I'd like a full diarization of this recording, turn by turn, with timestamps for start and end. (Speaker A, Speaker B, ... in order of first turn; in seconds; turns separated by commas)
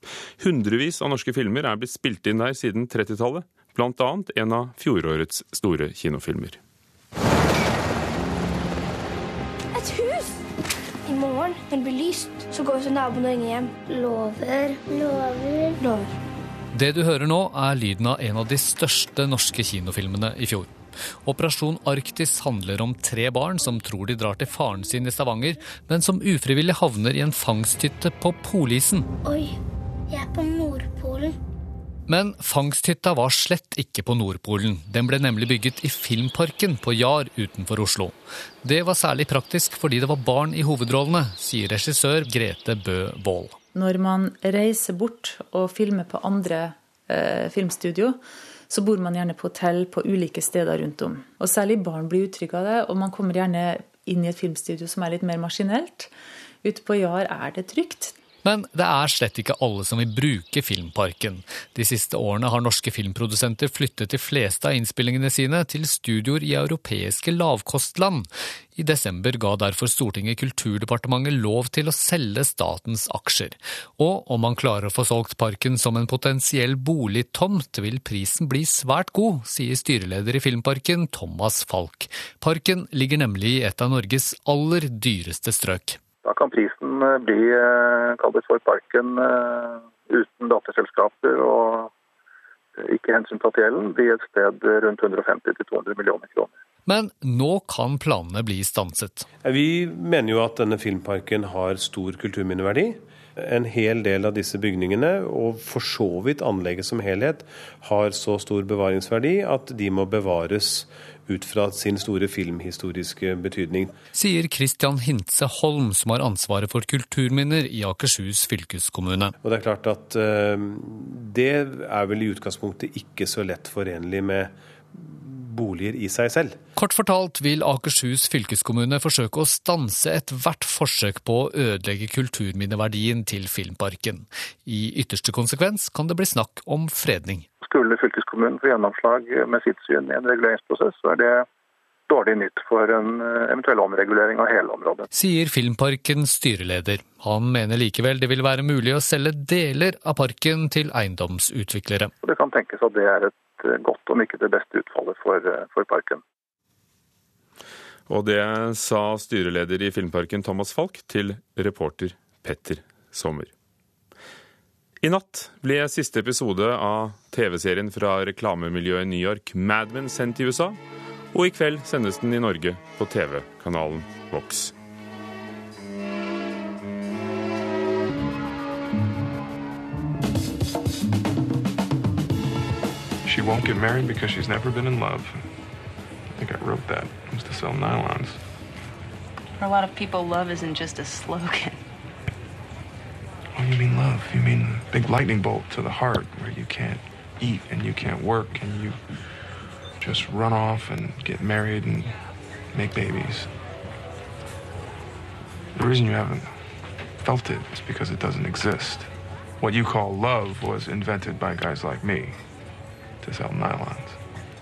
Speaker A: 0.4-6.6, Speaker B: 9.7-10.4, Speaker B: 11.1-16.1, Speaker C: 16.7-29.1, Speaker B: 29.2-29.6, Speaker B: 30.1-31.4, Speaker C: 32.1-43.6, Speaker D: 43.7-56.1, Speaker D: 56.6-58.2, Speaker C: 58.4-86.0, Speaker E: 86.2-91.9, Speaker E: 92.8-96.5, Speaker C: 96.9-99.3, Speaker F: 99.4-114.0, Speaker C: 114.1-119.3, Speaker F: 119.4-126.6, Speaker C: 126.8-137.5, Speaker E: 137.6-141.5, Speaker E: 142.1-145.1, Speaker C: 145.1-152.1, Speaker E: 152.2-156.2, Speaker A: 158.1-163.5, Speaker A: 165.0-170.8, Speaker A: 171.3-174.7, Speaker G: 183.2-185.5, Speaker G: 186.3-188.4, Speaker H: 189.6-191.8, Speaker G: 193.5-199.0, Speaker G: 200.0-202.2, Speaker G: 202.7-203.5, Speaker G: 205.8-206.5, Speaker G: 207.2-209.1, Speaker G: 209.6-212.4, Speaker G: 213.2-214.2